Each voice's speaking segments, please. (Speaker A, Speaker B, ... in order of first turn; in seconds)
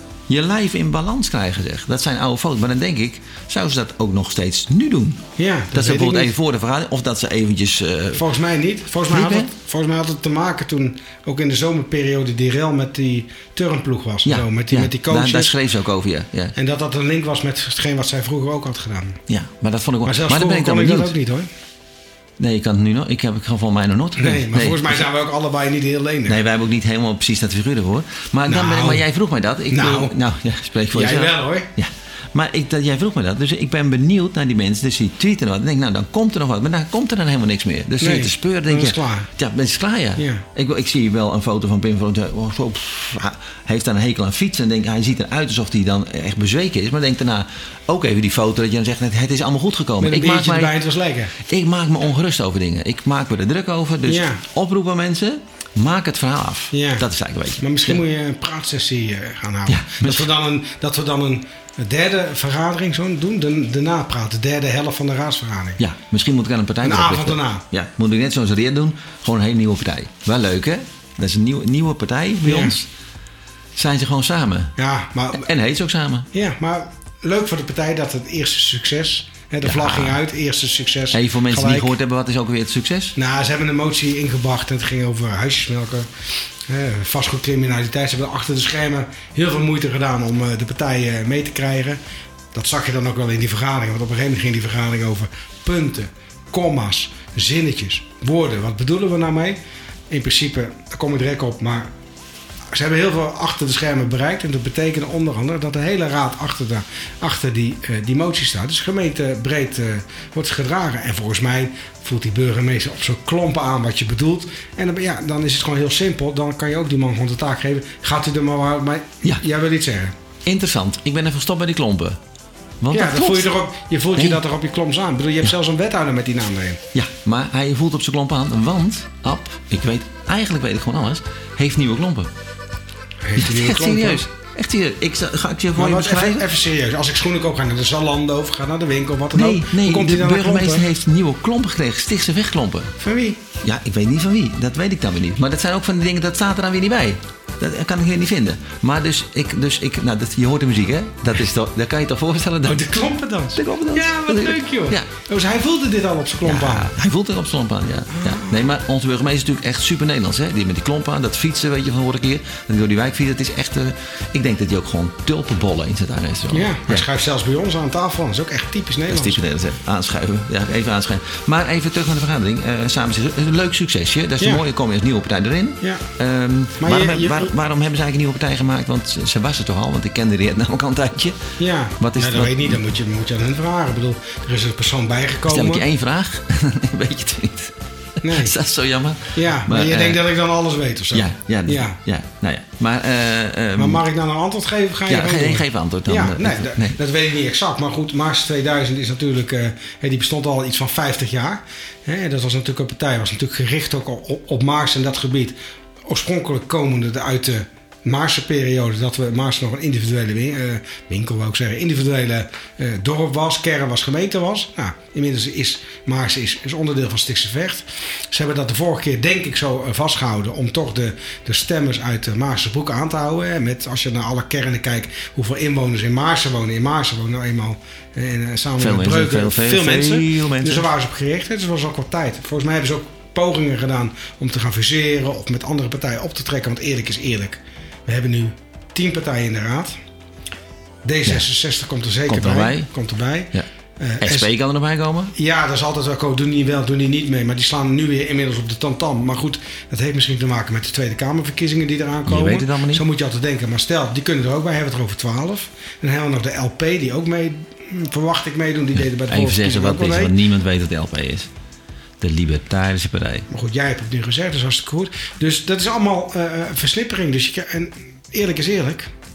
Speaker A: 0.3-8.2, 9.1-9.5, 14.2-16.5, 19.3-21.1, 22.4-25.1, 26.3-50.8, 51.4-58.0, 59.7-60.3, 65.8-72.9, 73.7-74.7, 75.3-76.3, 79.6-80.2, 81.1-83.1, 120.4-122.2, 122.8-123.5, 126.9-132.3, 133.4-136.4, 139.3-142.9, 143.6-152.8, 153.6-155.1, 156.4-167.1, 169.1-181.4, 182.0-182.8, 185.5-190.2, 191.1-194.0, 195.1-197.0, 228.8-230.9, 242.3-242.9, 244.2-245.3, 252.3-253.0, 258.9-261.5, 262.2-263.4
Speaker B: 5.4-6.3, 8.1-15.5, 16.5-19.2, 20.0-21.5, 24.2-26.4, 28.4-29.0, 29.7-30.1, 30.9-31.7, 38.0-39.3, 40.2-40.4, 50.0-51.3, 54.0-54.4, 56.7-57.0, 57.6-65.8, 66.8-67.6, 72.4-72.8, 74.8-75.5, 76.3-81.9, 83.2-86.1, 86.7-92.0, 92.5-99.6, 100.1-101.9, 102.7-120.1, 122.9-126.8, 133.2-134.2, 135.7-140.8, 143.0-143.4, 152.6-156.9, 158.1-158.7, 166.5-169.4, 176.8-177.5, 181.6-185.8, 188.2-188.5, 189.3-192.0, 193.8-205.5, 206.1-239.9, 241.0-244.5, 245.3-260.3, 263.5-269.1